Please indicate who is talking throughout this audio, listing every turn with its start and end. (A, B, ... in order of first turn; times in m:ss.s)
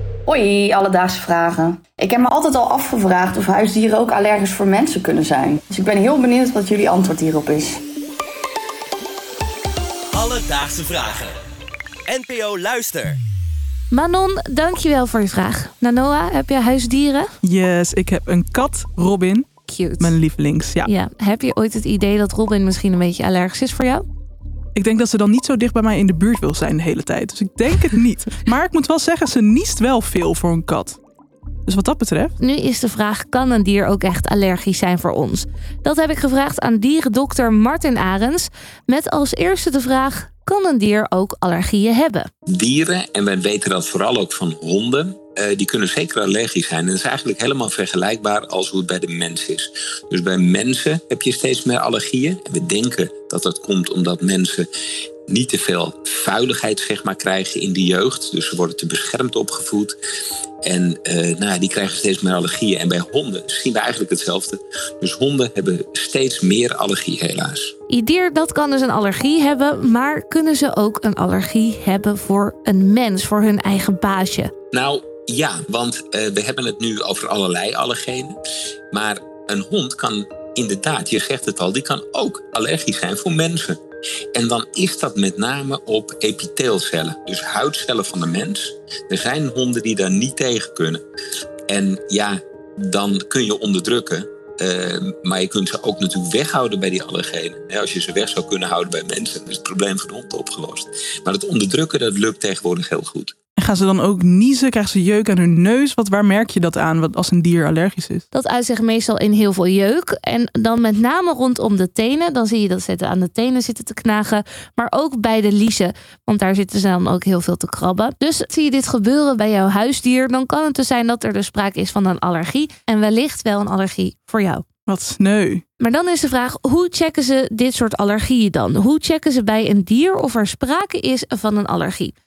0:00.3-0:07.8 A
0:10.1-0:11.4 B
0:12.1-0:13.2 B
0:13.9-0:17.3 C
0:17.4-0:19.5 D
0:19.7-0:20.2 C
0:20.0-0:20.9 D
0:20.8-0:24.0 C
0:24.8-0:31.0 D
0:31.7-0:32.3 D
0:32.4-0:42.3 C
0:42.5-0:54.7 E
0:55.3-1:00.0 E
1:00.6-1:07.7 E
1:07.9-1:14.5 C
1:14.7-1:18.4 E
1:18.9-1:23.8 E
1:24.4-1:31.0 E
1:31.7-1:43.3 E
1:43.6-1:48.2 D
1:48.3-2:04.6 C
2:04.9-2:05.6 D
2:05.8-2:12.1 C